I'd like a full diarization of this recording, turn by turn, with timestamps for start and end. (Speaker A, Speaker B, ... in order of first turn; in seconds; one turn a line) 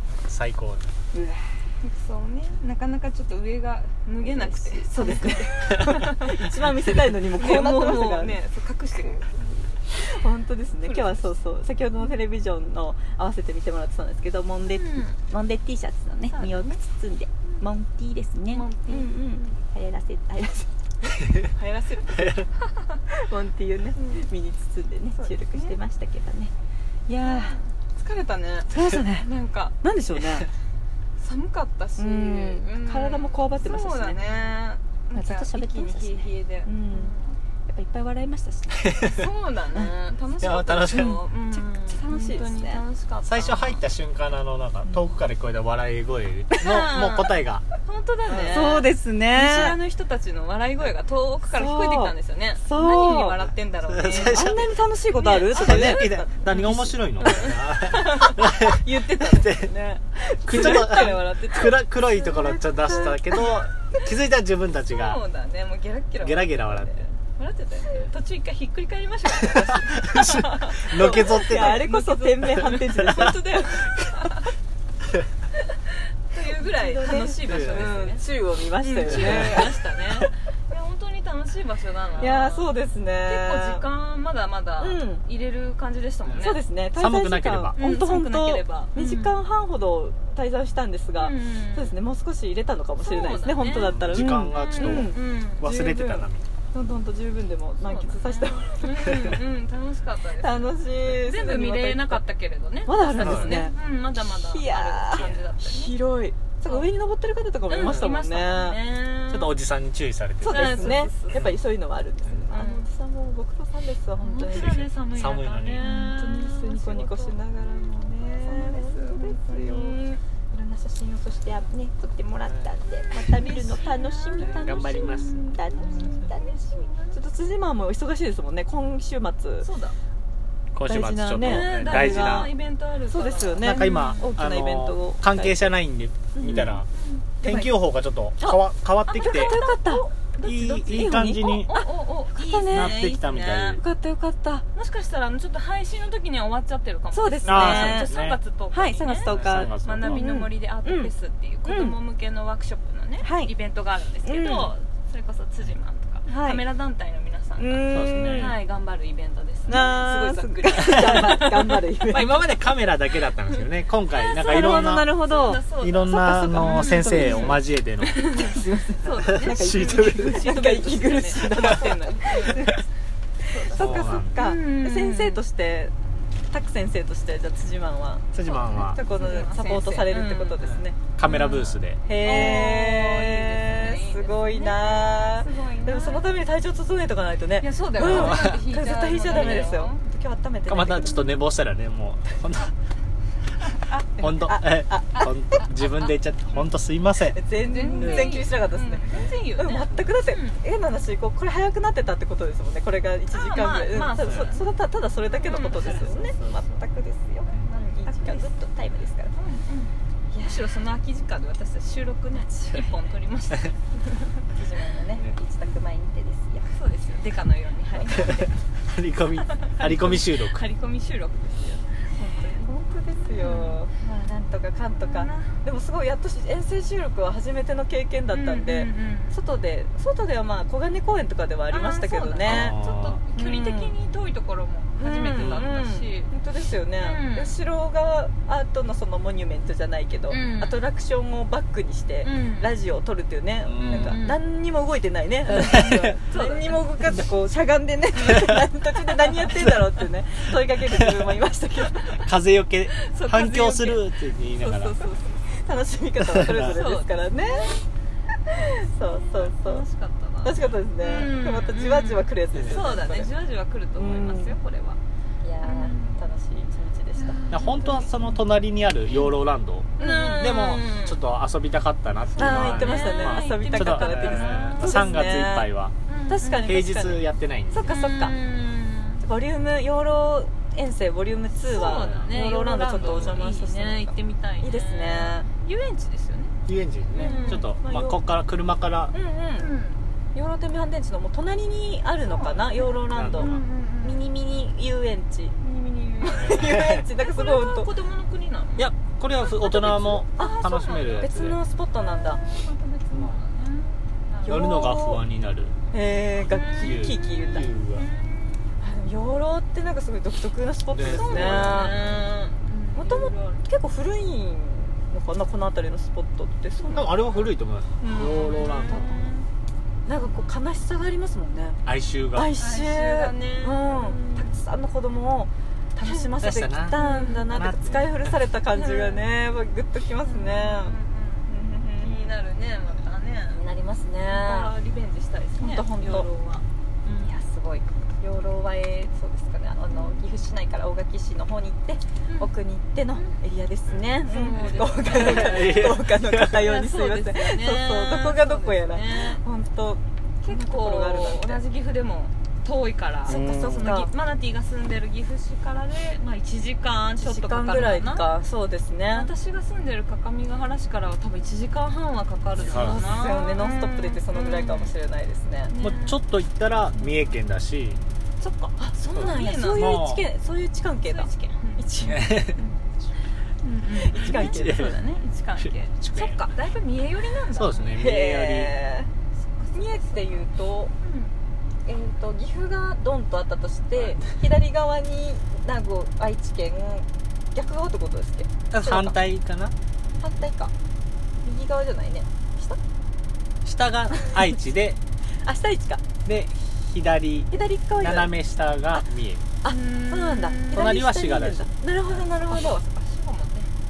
Speaker A: 0.2-0.9
Speaker B: 1.1-1.5
Speaker C: 1.8-6.4
Speaker B: 4.2-8.4
Speaker C: 7.2-9.8
Speaker B: 9.9-20.7
Speaker C: 10.8-11.3
Speaker C: 14.7-15.2
Speaker C: 16.3-16.8
Speaker C: 18.5-19.6
Speaker C: 21.0-23.0
Speaker B: 23.1-26.5
Speaker C: 24.0-24.3
Speaker C: 25.2-25.8
Speaker B: 27.1-27.6
Speaker C: 27.2-29.8
Speaker B: 28.7-29.3
Speaker B: 29.8-30.5
Speaker C: 31.2-37.4
Speaker B: 32.0-34.5
Speaker B: 35.1-37.1
Speaker B: 37.7-39.0
Speaker C: 39.0-43.8
Speaker A: 40.4-41.2
Speaker B: 41.5-42.8
Speaker A: 43.2-47.6
Speaker C: 46.6-54.5
Speaker A: 48.3-48.6
Speaker B: 48.5-49.8
Speaker B: 51.5-53.4
Speaker A: 53.9-54.6
Speaker B: 54.1-57.5
Speaker C: 55.2-58.8
Speaker A: 55.5-59.7
Speaker B: 58.8-61.2
Speaker A: 60.4-65.2
Speaker C: 60.5-63.6
Speaker B: 62.4-63.2
Speaker C: 64.9-74.5
Speaker A: 66.2-67.0
Speaker A: 69.5-71.8
Speaker B: 70.9-73.9
Speaker C: 75.9-78.2
Speaker B: 76.5-79.8
Speaker A: 77.5-78.0
Speaker C: 78.8-86.6
Speaker A: 79.1-79.7
Speaker B: 82.2-83.8
Speaker B: 84.8-85.2
Speaker A: 86.2-87.8
Speaker B: 86.4-99.3
Speaker C: 87.8-89.4
Speaker C: 91.2-91.9
Speaker C: 93.0-94.0
Speaker A: 93.7-96.5
Speaker C: 94.5-95.8
Speaker C: 97.8-106.0
Speaker B: 100.4-102.2
Speaker B: 102.9-103.8
Speaker A: 103.2-103.5
Speaker B: 104.3-108.8
Speaker A: 105.2-105.5
Speaker C: 107.7-109.5
Speaker A: 107.8-108.1
Speaker A: 109.3-111.6
Speaker C: 110.4-111.5
Speaker B: 110.5-114.8
Speaker C: 112.5-112.9
Speaker C: 114.2-120.2
Speaker A: 114.6-115.8
Speaker B: 115.8-129.7
Speaker C: 123.1-127.2
Speaker A: 124.4-125.6
Speaker C: 129.6-130.0
Speaker A: 130.7-132.5
Speaker B: 130.9-132.5
Speaker C: 131.4-134.3
Speaker B: 133.1-135.7
Speaker A: 133.6-136.9
Speaker B: 136.3-136.8
Speaker C: 136.9-137.3
Speaker A: 137.4-139.6
Speaker B: 137.4-137.7
Speaker B: 138.4-140.1
Speaker C: 139.1-143.8
Speaker A: 140.4-141.8
Speaker B: 140.9-143.1
Speaker A: 142.6-143.8
Speaker B: 143.8-144.7
Speaker C: 144.7-161.8
Speaker B: 147.1-148.1
Speaker A: 147.4-148.4
Speaker B: 148.7-151.1
Speaker A: 149.3-150.2
Speaker B: 151.7-152.0
Speaker B: 153.2-153.5
Speaker B: 154.2-154.7
Speaker B: 156.3-156.6
Speaker B: 157.6-158.6
Speaker A: 157.9-158.6
Speaker B: 159.7-162.5
Speaker A: 162.1-165.2
Speaker C: 163.5-172.7
Speaker B: 164.3-167.6
Speaker A: 165.7-168.1
Speaker B: 168.2-172.8
Speaker A: 169.2-170.5
Speaker C: 173.4-175.4
Speaker B: 173.6-175.9
Speaker A: 173.8-174.4
Speaker B: 176.5-181.0
Speaker A: 178.3-179.0
Speaker C: 178.9-180.6
Speaker A: 180.6-182.0
Speaker C: 181.2-186.3
Speaker B: 182.0-191.3
Speaker C: 187.6-190.0
Speaker A: 188.0-188.6
Speaker A: 189.3-189.7
Speaker A: 190.7-192.7
Speaker B: 193.9-195.6
Speaker A: 194.2-197.4
Speaker B: 197.3-209.3
Speaker C: 197.6-200.6
Speaker A: 197.9-198.5
Speaker C: 203.3-204.7
Speaker A: 204.2-204.6
Speaker C: 205.3-206.7
Speaker C: 208.1-208.5
Speaker C: 209.3-214.5
Speaker B: 210.3-210.7
Speaker B: 212.4-212.9
Speaker B: 214.5-216.7
Speaker C: 216.7-218.6
Speaker A: 218.9-220.6
Speaker C: 219.5-222.7
Speaker B: 222.2-232.8
Speaker C: 223.2-224.3
Speaker C: 225.0-225.6
Speaker C: 228.3-229.3
Speaker C: 231.7-236.3
Speaker A: 232.5-233.2
Speaker B: 233.3-233.9
Speaker B: 235.0-252.2
Speaker A: 235.3-235.7
Speaker C: 237.0-237.6
Speaker C: 240.3-240.8
Speaker C: 242.2-242.8
Speaker A: 243.7-244.2
Speaker C: 243.8-244.4
Speaker C: 245.5-246.9
Speaker A: 245.7-246.1
Speaker A: 252.2-255.0
Speaker C: 253.0-255.4
Speaker B: 255.4-257.8
Speaker A: 256.3-256.7
Speaker C: 256.6-257.9
Speaker B: 258.5-259.8
Speaker C: 258.9-265.0
Speaker B: 260.4-263.3
Speaker A: 262.6-262.9
Speaker B: 264.0-264.6
Speaker B: 265.4-267.5
Speaker C: 265.6-266.2
Speaker C: 267.2-268.4
Speaker A: 267.5-275.9
Speaker C: 270.0-271.2
Speaker B: 270.0-270.5
Speaker C: 272.3-275.2
Speaker B: 272.4-275.7
Speaker C: 276.1-276.7
Speaker B: 276.3-278.4
Speaker A: 276.6-277.9
Speaker C: 277.9-279.2
Speaker B: 279.2-285.5
Speaker C: 281.6-286.6
Speaker A: 281.8-282.4
Speaker A: 282.9-283.4
Speaker A: 286.7-289.1
Speaker C: 287.1-287.6
Speaker B: 287.2-288.2
Speaker B: 289.1-289.7
Speaker C: 289.6-290.1
Speaker B: 290.3-295.6
Speaker C: 292.2-294.2
Speaker A: 293.1-293.6
Speaker C: 295.6-298.9
Speaker B: 296.2-297.9
Speaker A: 296.4-297.0
Speaker A: 298.8-301.6
Speaker C: 299.4-301.3
Speaker B: 301.1-302.4
Speaker C: 301.9-304.7
Speaker A: 303.1-303.4
Speaker B: 304.4-305.2
Speaker A: 304.4-305.8
Speaker B: 305.9-307.7
Speaker C: 306.5-308.8
Speaker A: 306.6-308.1
Speaker B: 308.8-312.0
Speaker A: 310.9-312.1
Speaker C: 311.1-313.6
Speaker B: 312.9-317.2
Speaker C: 316.8-317.2
Speaker A: 316.9-319.1
Speaker C: 318.0-319.5
Speaker B: 318.1-319.2
Speaker B: 320.1-321.8
Speaker A: 321.9-322.5
Speaker B: 322.3-330.9
Speaker C: 322.6-324.6
Speaker A: 326.4-328.4
Speaker C: 326.9-327.5
Speaker C: 328.7-329.2
Speaker C: 330.2-333.6
Speaker B: 331.5-332.3
Speaker B: 333.5-334.7
Speaker C: 334.3-337.3
Speaker B: 335.6-336.3
Speaker B: 337.2-351.6
Speaker C: 339.9-340.2
Speaker C: 344.0-346.0
Speaker A: 344.6-346.6
Speaker C: 346.5-349.4
Speaker C: 350.4-358.3
Speaker B: 353.3-354.1
Speaker A: 353.3-353.8
Speaker B: 357.2-359.3
Speaker C: 359.1-364.9
Speaker A: 362.6-363.1
Speaker B: 362.7-365.7
Speaker C: 365.7-366.2
Speaker A: 365.8-368.0
Speaker C: 368.4-370.0
Speaker B: 368.8-372.4
Speaker A: 369.1-370.2
Speaker C: 371.0-371.9
Speaker A: 372.0-372.6
Speaker C: 373.6-378.0
Speaker B: 374.0-375.0
Speaker A: 374.1-375.0
Speaker A: 375.6-376.4
Speaker A: 377.5-378.7
Speaker B: 378.0-379.1
Speaker C: 379.4-380.4
Speaker B: 379.7-380.9
Speaker C: 381.0-381.3
Speaker B: 381.9-389.2
Speaker A: 388.7-389.8
Speaker B: 390.2-390.7
Speaker B: 391.4-392.8
Speaker A: 393.6-395.0
Speaker B: 395.4-396.0
Speaker A: 396.2-399.4
Speaker B: 397.5-398.3
Speaker B: 399.6-402.8
Speaker C: 399.6-400.9
Speaker A: 400.7-401.7
Speaker C: 402.1-403.7